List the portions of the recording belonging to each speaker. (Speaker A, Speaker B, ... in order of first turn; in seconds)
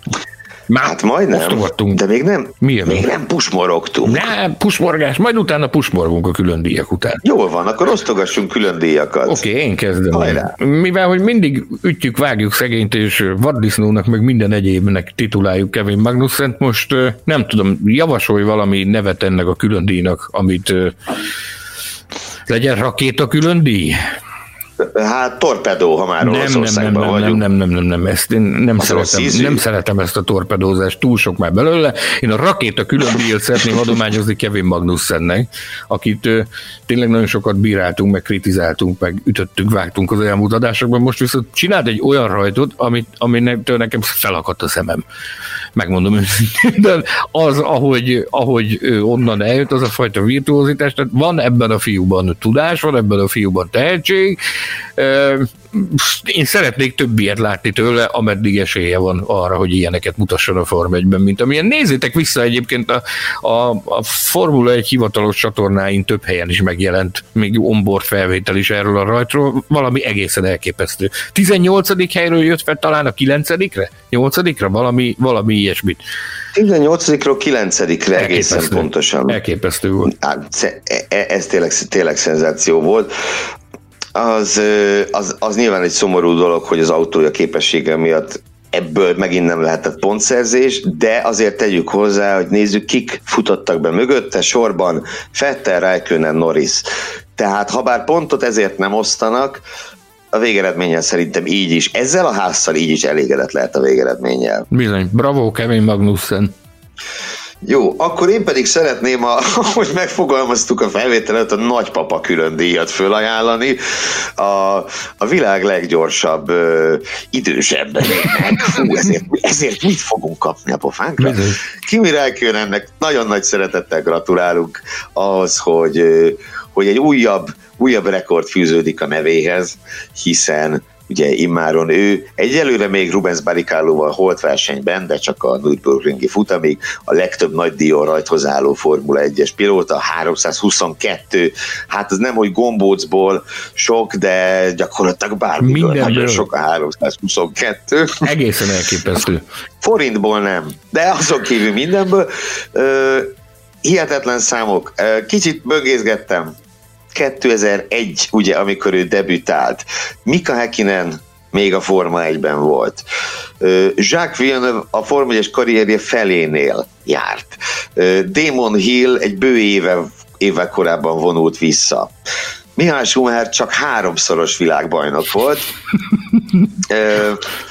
Speaker A: 0.7-2.0, 2.6-3.1, 4.0-7.2, 9.3-21.0, 22.5-24.0, 26.2-45.0, 45.8-54.4, 55.0-76.0, 78.1-80.1, 104.7-106.5, 121.2-121.6, 145.6-146.5, 148.2-149.4
Speaker B: 0.8-4.3, 7.2-9.4, 10.1-10.5, 24.8-27.4, 28.8-29.6, 76.5-79.4, 80.1-83.1, 84.1-99.6, 100.3-104.7, 107.6-148.3, 149.8-156.5, 157.1-163.0, 163.6-172.1, 172.8-175.7, 176.8-177.5